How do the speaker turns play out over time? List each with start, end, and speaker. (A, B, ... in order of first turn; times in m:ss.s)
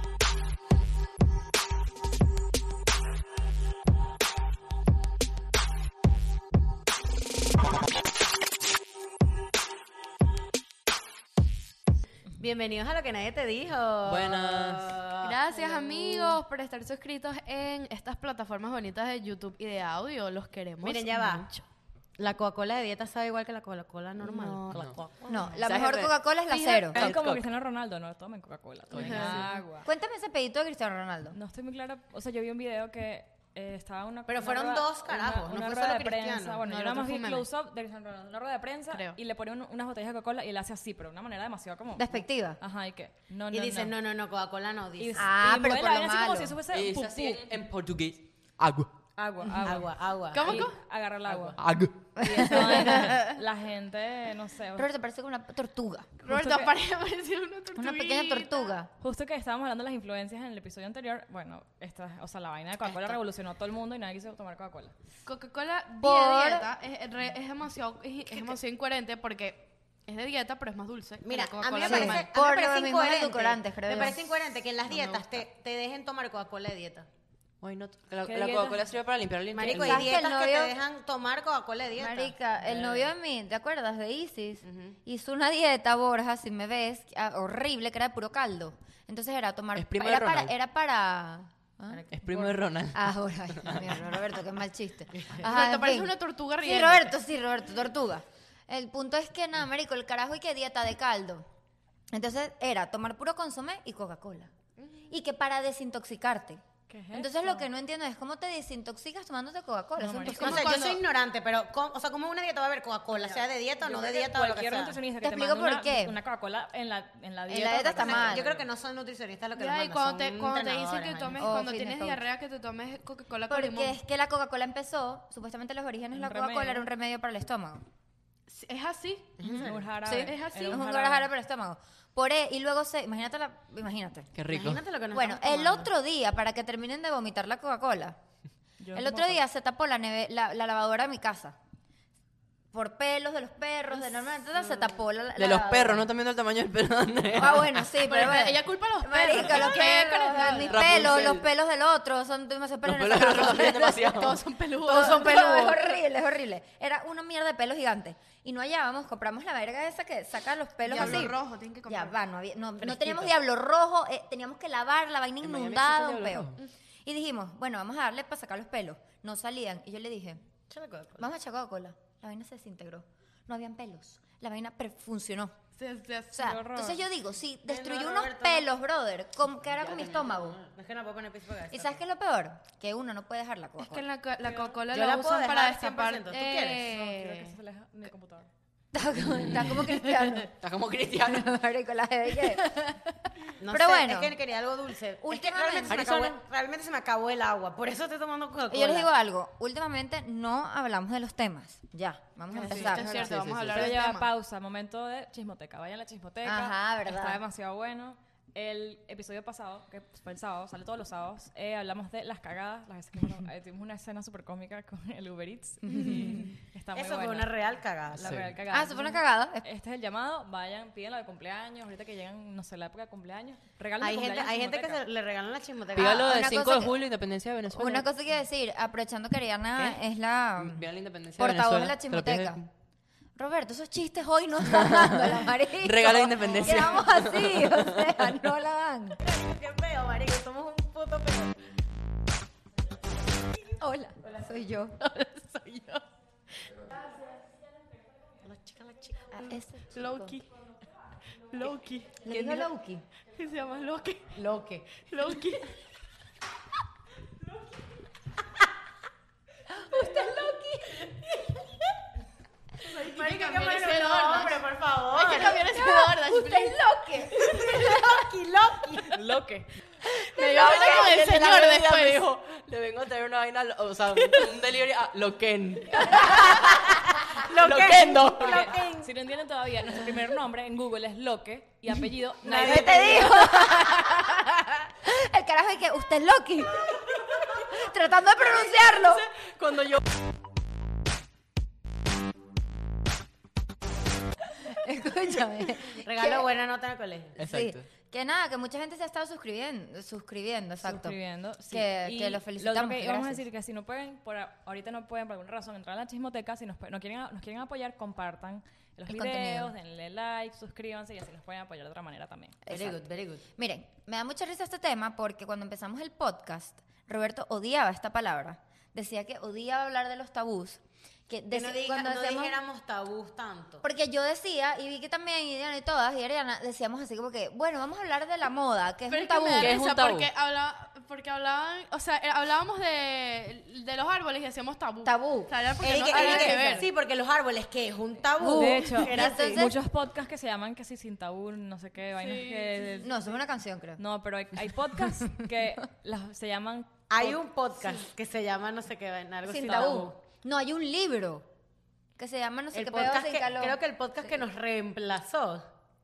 0:12.4-0:16.4 A
0:14.0-0:15.0 B
0:15.2-0:21.6 C
0:20.8-0:21.5 A
0:22.2-0:25.3 A
0:24.2-0:24.7 C
0:24.7-0:25.0 B
0:25.3-0:27.2 D
0:25.6-0:26.2 B
0:26.5-0:29.9 E
0:27.0-0:27.4 B
0:28.9-0:29.5 B
0:29.0-0:29.4 C
0:29.8-0:31.4 D
0:31.3-0:42.1 E
0:34.3-0:36.7 A
0:36.7-0:37.5 C
0:38.9-0:39.2 C
0:42.0-0:42.6 D
0:42.6-0:44.0 E
0:43.5-0:45.3 A
0:45.0-0:47.5 E
0:45.2-0:46.5 D
0:46.7-0:48.9 B
0:49.2-0:51.6 E
0:49.6-0:50.7 A
0:50.3-0:50.8 C
0:51.3-0:51.6 A
0:51.6-0:52.2 B
0:52.2-0:53.2 D
0:52.2-0:54.9 E
0:53.0-0:53.4 A
0:54.8-0:56.1 D
0:56.2-0:58.7 C
0:56.3-0:56.7 E
0:57.8-0:58.9 D
0:59.0-1:04.9 E
1:05.3-1:12.3 C
1:06.0-1:06.7 D
1:11.2-1:17.1 A
1:11.8-1:14.2 D
1:17.6-1:20.1 B
1:18.2-1:18.9 E
1:19.5-1:22.4 A
1:19.6-1:20.7 D
1:22.0-1:32.0 D
1:24.7-1:25.0 A
1:29.8-1:30.5 B
1:31.9-1:32.6 A
1:32.1-1:34.0 B
1:32.9-1:41.5 D
1:35.4-1:37.1 C
1:42.1-1:44.5 D
1:44.8-1:45.1 C
1:45.1-1:46.6 D
1:46.9-1:47.7 E
1:47.1-1:50.8 D
1:50.0-1:50.8 E
1:50.3-1:51.0 C
1:50.3-1:55.0 A
1:53.2-1:58.6 E
1:55.2-1:56.2 D
1:57.5-1:58.5 D
1:58.0-2:01.5 A
1:59.6-2:04.0 C
2:01.4-2:02.2 D
2:03.5-2:07.9 D
2:06.2-2:06.9 E
2:08.5-2:09.4 C
2:09.4-2:09.9 A
2:09.5-2:14.3 D
2:09.6-2:11.3 E
2:10.1-2:10.8 C
2:14.3-2:14.8 B
2:14.5-2:15.9 A
2:15.1-2:18.2 D
2:18.8-2:19.4 E
2:18.9-2:21.6 D
2:22.7-2:26.1 D
2:25.4-2:27.9 B
2:27.4-2:50.4 D
2:28.0-2:31.1 C
2:30.6-2:31.5 B
2:32.8-2:34.4 B
2:34.0-2:36.0 C
2:40.8-2:42.2 C
2:40.9-2:41.3 A
2:42.8-2:43.3 A
2:45.4-2:46.6 B
2:50.7-2:51.3 A
2:51.2-2:55.5 D
2:55.8-2:56.5 C
2:56.3-3:00.6 D
2:56.4-2:57.0 E
2:57.7-2:58.7 A
2:59.8-3:02.0 A
3:01.7-3:04.0 D
3:03.8-3:07.6 C
3:04.4-3:04.8 E
3:04.9-3:06.9 A
3:06.8-3:08.5 E
3:08.9-3:10.5 D
3:10.6-3:11.5 B
3:11.2-3:14.3 D
3:13.6-3:19.1 A
3:15.2-3:16.1 D
3:15.9-3:16.4 B
3:18.7-3:23.2 D
3:22.5-3:24.3 C
3:22.6-3:23.9 A
3:23.2-3:23.8 B
3:23.7-3:37.5 E
3:26.4-3:27.4 D
3:35.9-3:36.4 D
3:36.1-3:36.5 C
3:36.9-3:38.3 A
3:38.1-3:45.0 E
3:38.2-3:38.5 B
3:38.7-3:39.6 D
3:44.0-3:46.3 A
3:46.0-3:47.0 D
3:46.0-3:48.1 B
3:47.7-3:50.9 D
3:50.6-3:52.7 B
3:51.4-3:52.6 D
3:53.4-3:59.2 D
3:54.7-3:55.3 B
3:55.8-3:58.2 B
3:56.5-3:57.0 E
3:59.2-4:01.6 A
4:03.6-4:05.0 D
4:05.1-4:06.0 A
4:08.4-4:09.4 A
4:09.3-4:10.4 D
4:09.4-4:10.5 C
4:11.4-4:12.5 C
4:12.2-4:13.0 D
4:12.3-4:12.6 A
4:13.3-4:14.4 C
4:14.4-4:14.9 A
4:14.9-4:15.7 C
4:19.8-4:21.6 D
4:22.8-4:25.6 A
4:22.9-4:26.8 C
4:25.5-4:28.2 D
4:27.4-4:29.2 A
4:29.1-4:29.7 E
4:30.3-4:32.3 C
4:30.4-4:31.3 D
4:31.0-4:36.9 B
4:36.0-4:36.6 D
4:36.5-4:39.1 A
4:37.6-4:38.7 B
4:38.3-4:43.4 E
4:42.4-4:49.3 D
4:42.6-4:43.6 A
4:49.3-4:50.0 B
4:54.6-4:56.5 D
4:56.0-4:57.4 A
4:57.4-4:57.9 B
4:57.4-5:01.2 D
5:00.8-5:12.6 E
5:01.7-5:03.4 D
5:09.1-5:09.7 D
5:12.7-5:13.0 D
5:12.7-5:13.5 A
5:13.6-5:22.6 D
5:21.5-5:23.8 A
5:23.8-5:29.8 D
5:29.1-5:36.9 C
5:29.6-5:30.3 B
5:35.0-5:36.9 D
5:35.8-5:39.7 A
5:38.4-5:39.8 D
5:38.5-5:43.1 E
5:42.2-5:43.1 C
5:43.0-5:44.0 D
5:44.0-5:47.4 E
5:47.1-5:50.2 A
5:49.4-5:51.5 D
5:52.2-5:53.8 D
5:52.7-5:55.7 A